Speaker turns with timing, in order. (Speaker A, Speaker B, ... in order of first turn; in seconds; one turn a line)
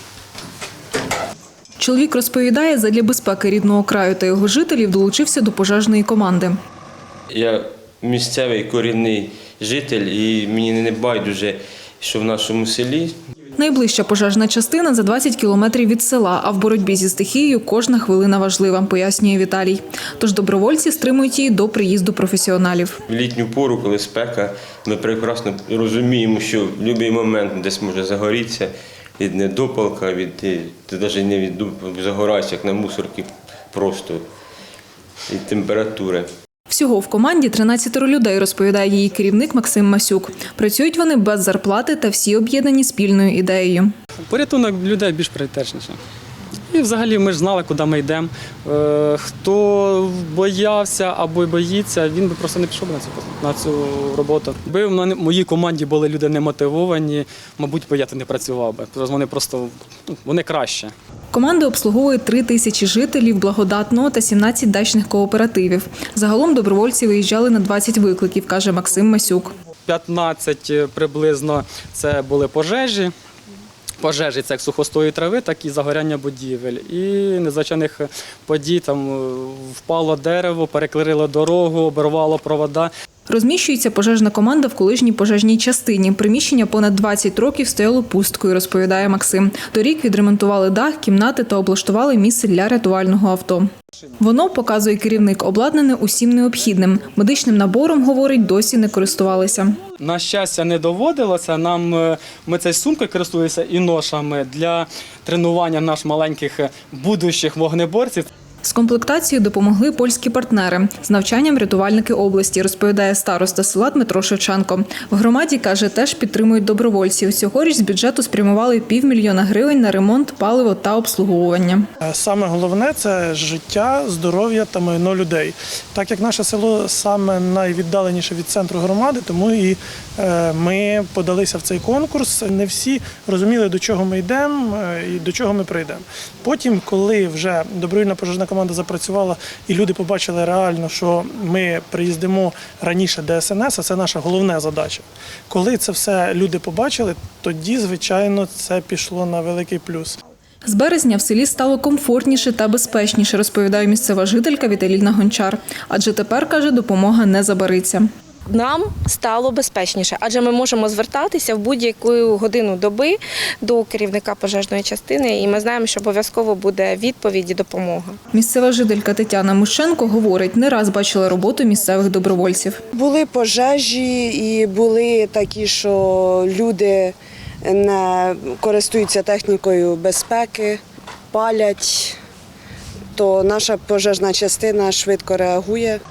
Speaker A: 1.8-6.6
Speaker B: 7.3-13.2
Speaker A: 13.6-23.0
Speaker B: 23.1-34.3
Speaker B: 35.3-36.3
Speaker A: 36.7-43.9
Speaker C: 44.2-46.0
Speaker C: 46.7-60.9
Speaker A: 61.3-69.5
Speaker C: 69.8-73.1
Speaker C: 74.0-82.9
Speaker A: 83.3-93.7
Speaker A: 94.2-99.8
Speaker C: 100.0-108.3
Speaker A: 108.6-121.8
Speaker D: 122.0-150.2
Speaker A: 150.6-158.1
Speaker E: 158.5-168.2
Speaker A: 168.3-172.8
Speaker F: 172.9-180.8
Speaker F: 181.3-182.2
Speaker F: 183.1-186.0